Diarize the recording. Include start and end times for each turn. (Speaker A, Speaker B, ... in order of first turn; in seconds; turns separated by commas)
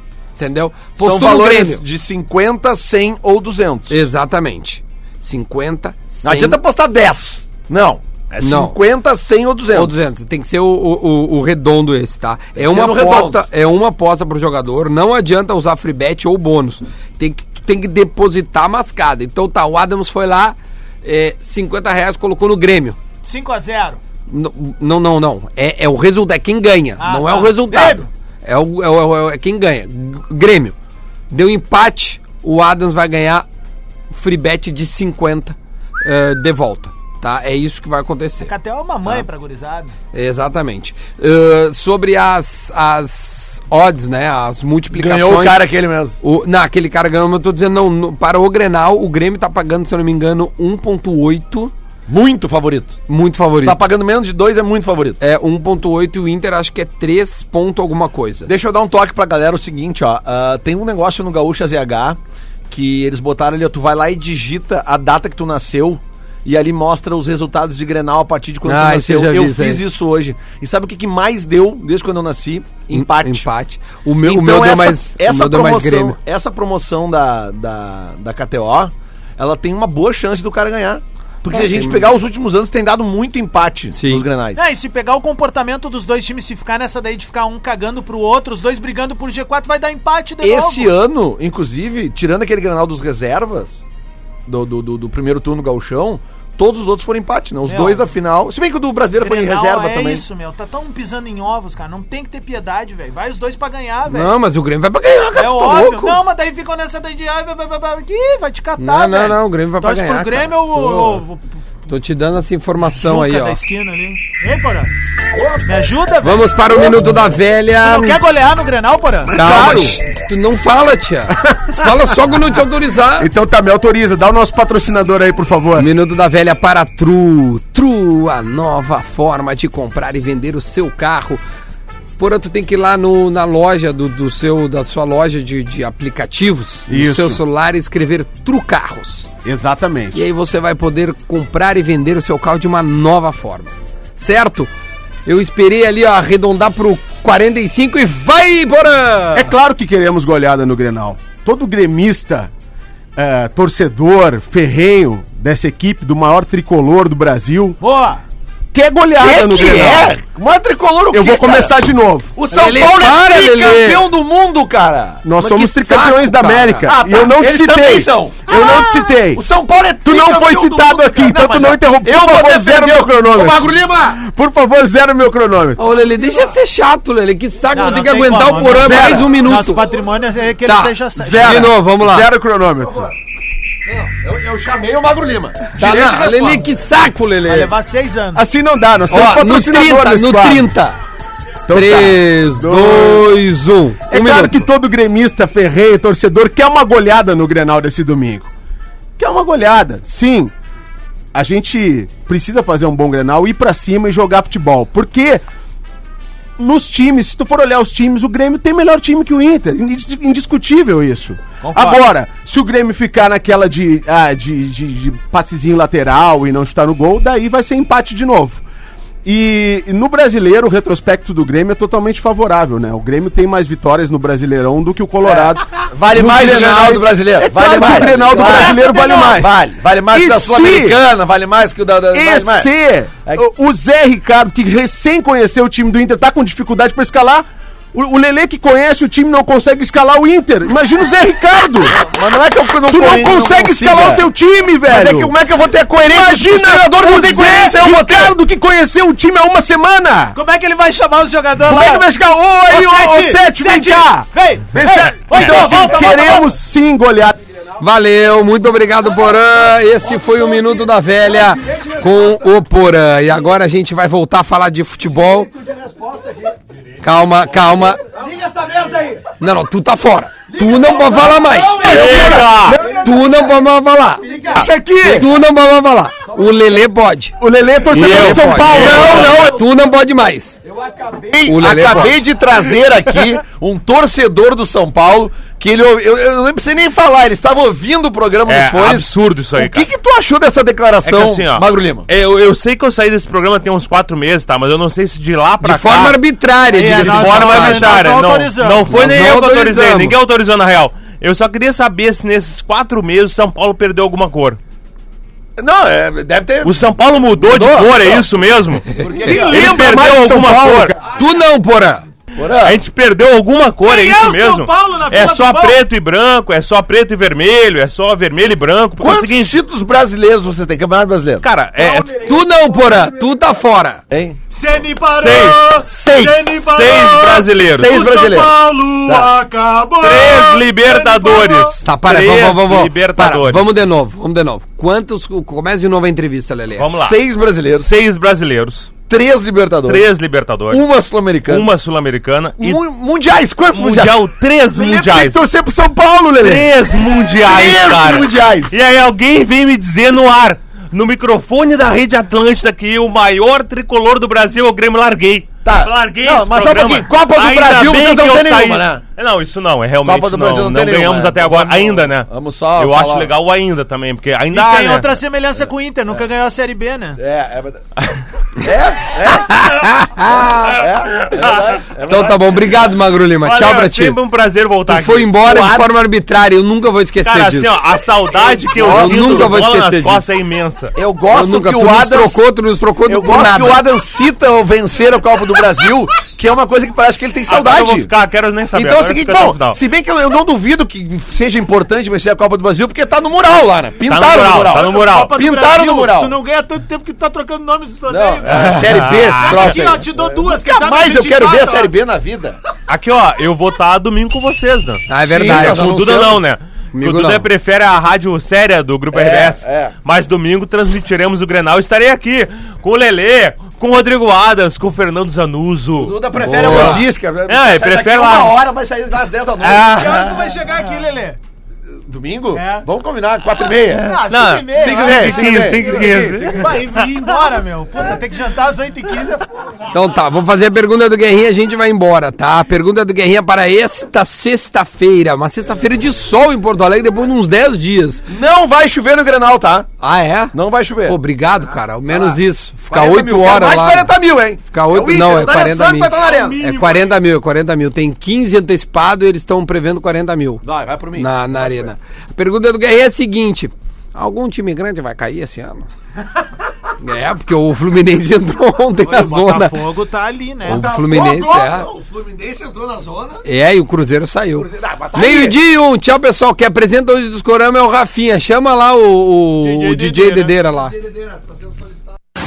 Speaker A: 0.4-1.8, Speaker B: 1.0-4.0, Speaker A: 3.9-6.6, Speaker B: 6.2-10.0, Speaker A: 8.4-8.8, Speaker A: 9.7-23.0, Speaker B: 12.6-13.4, Speaker C: 23.2-24.0, Speaker A: 24.3-30.7, Speaker C: 27.0-28.1, Speaker A: 31.3-33.4, Speaker A: 34.1-38.5, Speaker C: 38.4-39.9, Speaker A: 40.1-45.6, Speaker B: 44.9-46.2, Speaker A: 46.2-51.7, Speaker B: 52.1-53.0, Speaker A: 53.1-53.8, Speaker B: 53.6-55.2, Speaker A: 55.2-58.5, Speaker B: 58.5-73.5, Speaker A: 68.6-69.8, Speaker A: 72.9-76.2, Speaker B: 74.2-84.6, Speaker A: 81.5-82.0, Speaker A: 83.9-84.2, Speaker C: 84.5-90.9, Speaker B: 90.4-93.8, Speaker B: 94.5-100.2, Speaker C: 97.7-98.0, Speaker C: 99.2-104.3, Speaker A: 104.1-106.2, Speaker C: 105.3-111.4, Speaker A: 108.8-111.2, Speaker A: 111.9-113.6, Speaker C: 112.8-114.9, Speaker C: 115.6-117.0, Speaker A: 116.2-118.2, Speaker C: 117.8-119.9, Speaker A: 119.3-123.3, Speaker B: 119.4-119.9, Speaker D: 119.6-119.9, Speaker D: 121.5-121.9, Speaker D: 123.2-125.9, Speaker A: 125.8-131.4, Speaker A: 132.2-139.3, Speaker D: 136.9-137.4, Speaker D: 139.4-140.2, Speaker A: 140.1-144.7, Speaker A: 145.2-149.5, Speaker D: 149.3-152.5, Speaker D: 153.2-157.8, Speaker C: 157.8-158.2, Speaker D: 158.7-160.2, Speaker B: 159.2-161.7, Speaker D: 161.1-162.3, Speaker B: 162.3-165.3, Speaker A: 162.5-164.0, Speaker D: 165.2-169.4, Speaker A: 165.4-166.9, Speaker B: 166.9-168.8, Speaker B: 169.3-174.2, Speaker D: 170.0-175.8, Speaker A: 175.8-179.8, Speaker C: 177.7-181.7, Speaker B: 178.8-179.2, Speaker A: 180.6-182.3, Speaker D: 181.2-183.1, Speaker B: 183.8-186.7, Speaker A: 185.8-187.7, Speaker C: 187.4-188.4, Speaker D: 188.3-190.7, Speaker A: 189.1-190.9, Speaker D: 191.7-193.3, Speaker A: 191.7-194.7, Speaker D: 194.1-198.5, Speaker D: 199.2-200.5, Speaker D: 201.3-205.4, Speaker D: 206.6-218.6, Speaker C: 211.6-212.0, Speaker D: 219.2-229.6, Speaker B: 225.2-232.7, Speaker C: 227.9-229.4, Speaker D: 230.1-231.0, Speaker D: 232.1-242.0, Speaker B: 241.9-244.2, Speaker D: 242.9-245.3, Speaker B: 244.8-248.4, Speaker D: 246.0-250.3, Speaker C: 250.3-252.1, Speaker D: 251.6-257.4, Speaker C: 252.7-256.5, Speaker B: 255.3-256.1, Speaker A: 257.8-265.5, Speaker B: 260.2-262.4, Speaker B: 265.6-266.6, Speaker A: 267.0-268.0, Speaker B: 268.1-269.3, Speaker A: 269.4-274.3, Speaker B: 270.5-272.9, Speaker E: 271.8-272.8, Speaker D: 272.5-273.1, Speaker B: 274.2-274.7, Speaker D: 274.5-275.3, Speaker A: 275.0-277.3, Speaker D: 277.4-279.3, Speaker A: 277.9-280.6, Speaker E: 277.9-279.5, Speaker B: 278.0-279.6, Speaker B: 280.7-292.1, Speaker A: 281.4-282.2, Speaker E: 288.5-289.9, Speaker E: 291.0-296.2, Speaker A: 295.6-298.0, Speaker C: 296.7-298.9, Speaker E: 296.9-304.6, Speaker A: 298.9-300.2, Speaker B: 305.6-306.8, Speaker E: 306.6-310.9, Speaker B: 307.4-308.2, Speaker B: 309.0-310.9, Speaker C: 309.2-309.8, Speaker A: 311.0-312.1, Speaker B: 312.4-312.8, Speaker E: 312.6-319.6, Speaker C: 313.8-315.8, Speaker B: 319.0-321.4, Speaker E: 321.4-322.3, Speaker A: 322.2-324.0, Speaker B: 324.1-324.4, Speaker C: 324.5-331.8, Speaker E: 325.2-328.0, Speaker B: 325.9-326.4, Speaker B: 327.7-328.5, Speaker B: 329.1-329.3, Speaker E: 330.0-333.8, Speaker A: 331.8-336.9, Speaker E: 336.8-337.2, Speaker B: 337.0-337.9, Speaker E: 337.8-338.9, Speaker B: 339.1-340.1, Speaker E: 339.8-340.9, Speaker B: 340.7-341.7, Speaker E: 341.5-342.8, Speaker B: 342.6-344.2, Speaker E: 343.7-345.4, Speaker D: 344.7-346.8, Speaker E: 346.4-365.1, Speaker B: 347.4-348.7, Speaker B: 355.6-359.0, Speaker B: 360.0-363.3, Speaker C: 364.5-367.2, Speaker B: 367.2-367.8, Speaker B: 368.6-369.7, Speaker A: 369.3-370.9, Speaker B: 370.7-372.9, Speaker E: 371.2-371.8, Speaker A: 372.0-374.2, Speaker E: 373.4-375.5, Speaker A: 374.9-377.8, Speaker B: 375.4-375.9, Speaker E: 377.2-380.9, Speaker B: 378.7-379.6, Speaker A: 378.8-380.2, Speaker B: 380.9-382.4, Speaker A: 381.3-383.8, Speaker B: 383.1-388.1, Speaker E: 387.5-389.8, Speaker B: 388.7-396.4, Speaker E: 394.0-395.4, Speaker C: 394.8-401.9, Speaker B: 398.1-402.6, Speaker E: 398.7-399.8, Speaker E: 402.9-418.6, Speaker A: 405.1-405.9, Speaker B: 405.2-406.4, Speaker A: 406.9-407.5, Speaker B: 409.1-409.9, Speaker B: 416.0-420.3, Speaker A: 416.4-417.0, Speaker E: 419.6-420.4, Speaker C: 419.8-421.4, Speaker B: 422.1-426.8, Speaker C: 422.5-422.9, Speaker C: 423.7-429.5, Speaker E: 424.3-426.7, Speaker A: 429.9-438.2, Speaker B: 438.3-439.9, Speaker A: 440.0-444.1, Speaker B: 440.5-441.2, Speaker B: 442.1-442.4, Speaker B: 442.9-446.6, Speaker A: 444.7-450.6, Speaker E: 446.1-447.2, Speaker B: 450.6-451.9, Speaker A: 451.2-455.9, Speaker A: 457.0-459.9, Speaker C: 459.0-460.9, Speaker A: 460.6-461.9, Speaker B: 460.7-463.4, Speaker A: 463.4-470.9, Speaker B: 464.6-465.6, Speaker C: 469.6-470.5, Speaker B: 470.7-472.2